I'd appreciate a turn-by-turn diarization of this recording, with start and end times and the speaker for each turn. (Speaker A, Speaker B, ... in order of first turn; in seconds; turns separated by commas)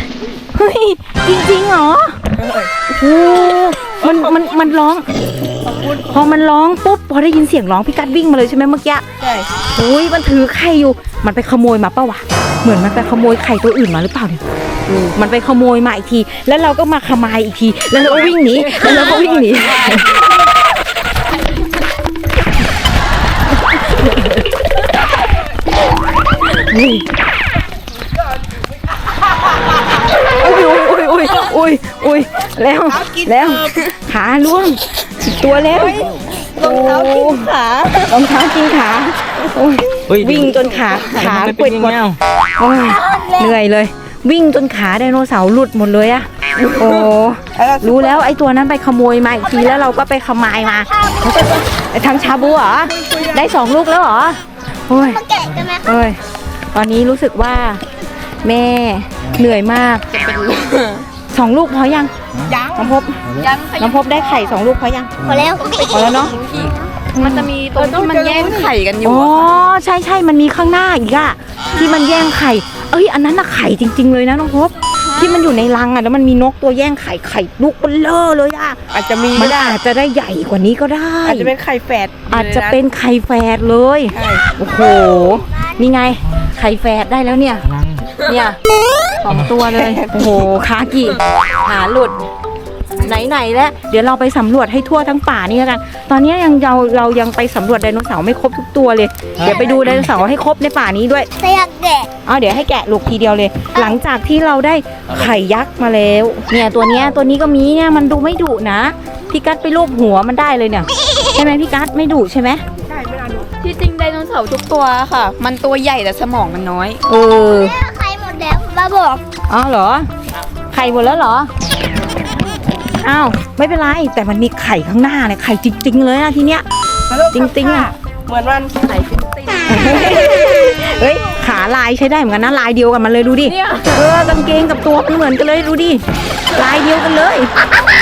Speaker A: 0.5-2.2, Speaker B: 2.4-2.7, Speaker A: 2.9-5.1, Speaker B: 4.0-4.7, Speaker B: 5.6-6.4, Speaker A: 6.1-9.0, Speaker B: 9.2-9.5, Speaker A: 9.8-14.4, Speaker C: 14.9-15.1, Speaker A: 15.1-20.1, Speaker C: 18.6-20.2, Speaker A: 23.7-24.4, Speaker A: 26.5-27.1, Speaker B: 28.1-30.1, Speaker A: 30.1-42.0, Speaker B: 32.9-33.9, Speaker B: 35.7-37.8, Speaker D: 40.1-42.2, Speaker A: 42.6-55.2, Speaker B: 42.8-43.6, Speaker B: 46.6-47.0, Speaker B: 47.5-48.3, Speaker E: 49.4-51.7, Speaker B: 52.1-53.5, Speaker E: 55.0-55.9, Speaker A: 55.9-56.2, Speaker A: 56.7-57.8, Speaker A: 58.4-60.0, Speaker C: 60.1-61.1, Speaker A: 61.3-62.1, Speaker B: 62.5-63.0, Speaker A: 62.7-63.2, Speaker C: 63.4-64.6, Speaker A: 63.8-65.1, Speaker E: 65.2-66.9, Speaker C: 65.6-69.5, Speaker A: 65.9-66.3, Speaker A: 67.1-67.5, Speaker B: 67.8-68.7, Speaker A: 69.0-78.8, Speaker C: 75.0-75.5, Speaker B: 78.9-79.8, Speaker A: 79.3-81.5, Speaker B: 81.3-82.8, Speaker A: 82.3-87.7, Speaker B: 84.1-84.5, Speaker E: 84.6-85.9, Speaker D: 87.7-88.1, Speaker A: 88.2-88.6, Speaker A: 89.2-92.2, Speaker B: 89.7-90.3, Speaker A: 93.0-101.3, Speaker D: 99.4-100.1, Speaker E: 99.5-99.8, Speaker E: 101.4-102.1, Speaker A: 102.3-112.6, Speaker D: 105.1-105.4, Speaker B: 112.9-113.5, Speaker C: 113.6-117.0, Speaker A: 117.1-117.7, Speaker E: 117.4-119.2, Speaker A: 119.5-120.1, Speaker A: 120.7-121.5, Speaker A: 123.0-126.7, Speaker B: 127.1-128.8, Speaker A: 127.3-127.9, Speaker C: 128.8-130.4, Speaker A: 129.7-137.5, Speaker C: 133.5-134.1